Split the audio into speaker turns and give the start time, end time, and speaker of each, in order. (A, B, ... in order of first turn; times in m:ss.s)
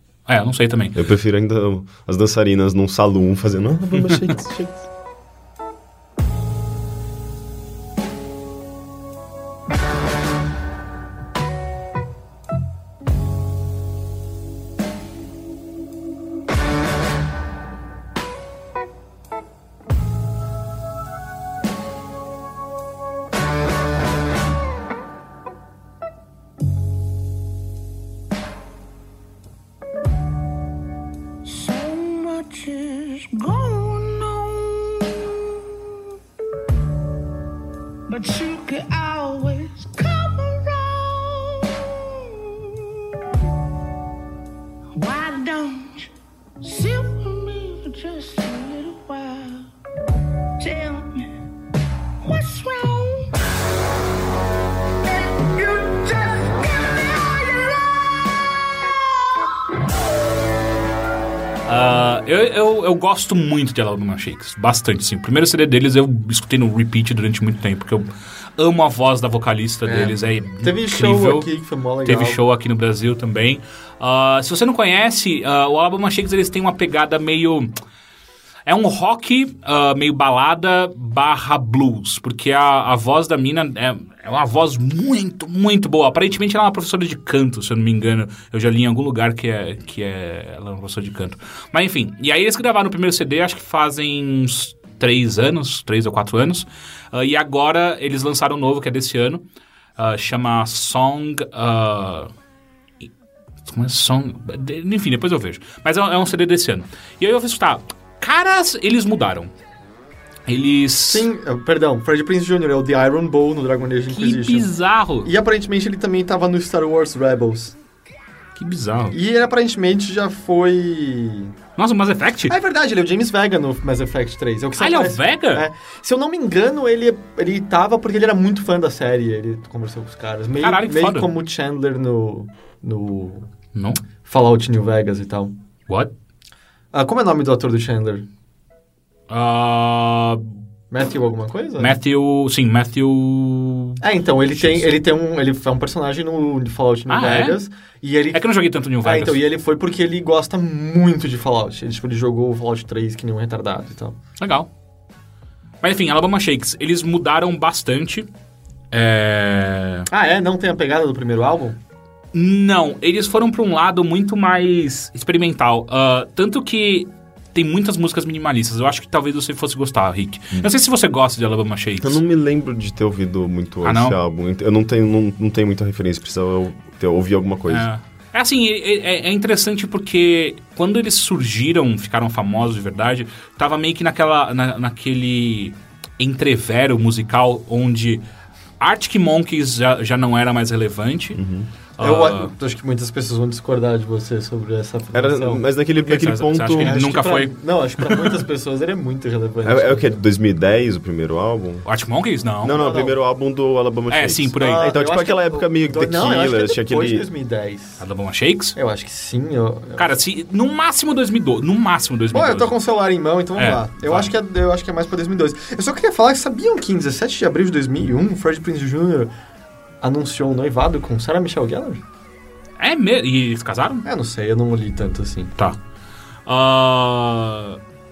0:00.3-0:01.0 A
0:00.9-0:04.8 B
0:31.4-0:36.0 C
0:38.1-0:43.0 C
0:44.9-0:46.1 C
0:46.6-0:49.7 C
0:50.6-0:51.3 C
0:52.2-0:53.3 C
0:54.9-0:59.9 C
1:01.6-1:11.5 A
1:09.8-1:12.4 D
1:12.0-1:17.7 A
1:18.6-1:39.4 A
1:40.0-1:42.3 A
1:43.6-1:49.5 A
1:50.5-1:51.3 A
1:51.1-1:54.7 D
1:54.1-1:55.3 A
1:55.2-1:57.8 D
1:58.6-1:59.2 A
1:59.1-2:01.6 D
2:01.8-2:02.5 A
2:02.5-2:13.5 D
2:04.8-2:05.7 A
2:10.6-2:11.3 A
2:13.7-2:14.0 A
2:14.2-2:15.5 D
2:16.9-2:18.3 D
2:19.3-2:20.6 A
2:20.9-2:22.0 D
2:21.8-2:24.0 A
2:24.0-2:28.4 D
2:27.1-2:27.6 A
2:28.3-2:29.4 A
2:29.0-2:34.2 D
2:34.4-2:34.7 A
2:35.8-2:38.3 A
2:38.9-2:40.1 A
2:40.1-2:41.8 D
2:42.3-2:52.2 A
2:52.0-2:57.9 B
2:53.8-2:54.2 A
2:57.7-3:08.2 A
3:08.8-3:11.4 A
3:11.3-3:11.7 B
3:12.0-3:12.5 A
3:12.0-3:15.6 D
3:15.1-3:17.0 B
3:16.0-3:17.6 A
3:16.8-3:20.2 D
3:19.6-3:21.8 B
3:21.9-3:22.8 A
3:22.6-3:27.2 B
3:22.6-3:23.2 D
3:24.1-3:24.9 A
3:24.6-3:28.0 D
3:28.0-3:28.8 A
3:28.8-3:30.0 D
3:30.0-3:32.7 A
3:32.3-3:39.3 D
3:33.6-3:34.3 A
3:40.0-3:42.0 D
3:42.8-3:44.0 A
3:44.0-3:45.5 D
3:46.4-3:47.8 A